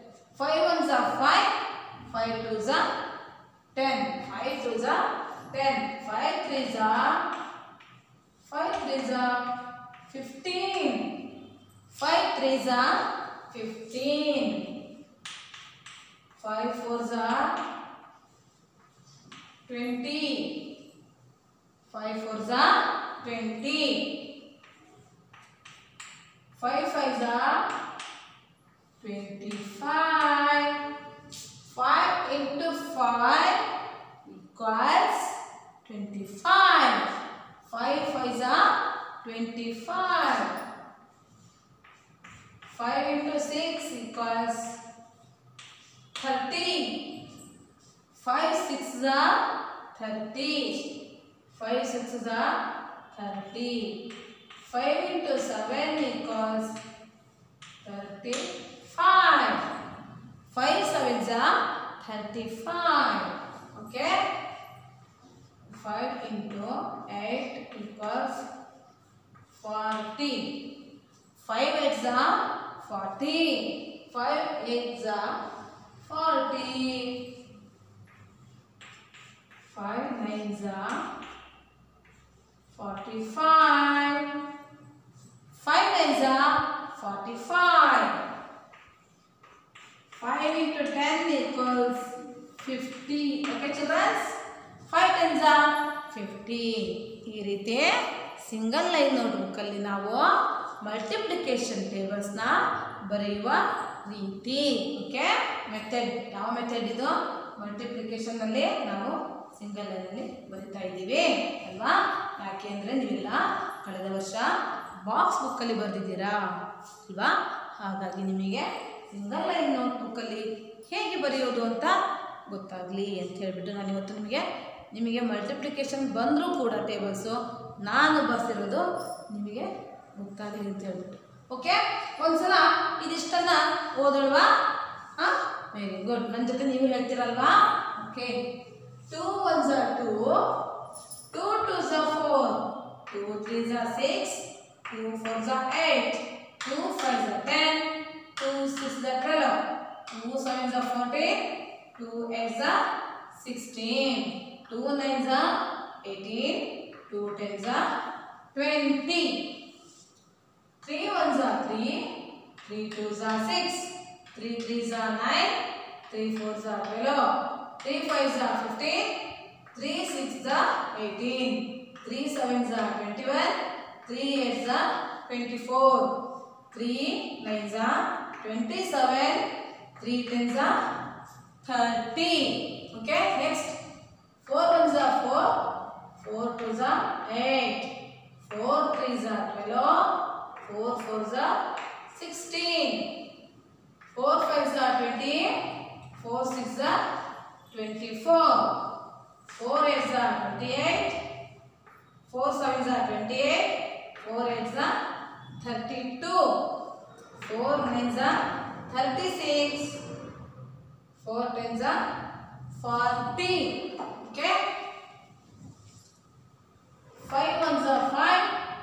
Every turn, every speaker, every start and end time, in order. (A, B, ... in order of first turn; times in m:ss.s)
0:00.3-0:01.5 A
0:02.0-0:02.8 A
0:03.7-0:07.2 A
0:08.4-0:09.4 A
0:10.0-0:11.2 A
0:11.9-0:13.0 A
0:13.5-0:14.6 A
0:16.4-0:17.6 A
0:19.6-0:20.6 A
0:21.8-0:24.2 A
0:26.5-0:27.7 A
0:29.0-0:30.8 A
0:31.6-0:33.6 A
0:34.2-0:40.6 A
0:42.6-0:44.8 A
0:46.2-0:47.2 A
0:48.1-0:50.9 A
0:51.5-0:54.0 A
0:54.6-0:56.8 A
0:57.8-0:59.7 A
1:00.5-1:04.2 A
1:05.7-1:08.5 A
1:09.5-1:10.7 A
1:11.4-1:15.4 A
1:16.0-1:17.3 A
1:19.6-1:21.0 A
1:22.7-1:24.3 A
1:25.5-1:28.2 A
1:30.1-1:40.3 A
1:40.8-2:14.5 A
2:15.2-2:18.4 A
2:19.1-2:20.6 A
2:21.3-2:32.8 A
2:33.3-2:37.8 A
2:38.5-2:39.5 A
2:40.8-2:42.0 A
2:42.6-2:49.2 A
2:49.7-2:56.1 A
2:56.7-2:59.4 A
3:00.0-3:00.8 A
3:01.6-3:03.8 A
3:04.4-3:05.5 A
3:06.2-3:11.6 A
3:12.1-3:13.1 A
3:14.1-3:17.0 A
3:17.7-3:18.8 A
3:19.5-3:21.2 A
3:22.3-3:24.9 A
3:25.6-3:26.6 A
3:27.4-3:30.0 A
3:31.2-3:32.0 A
3:32.7-3:34.6 A
3:37.2-3:38.6 A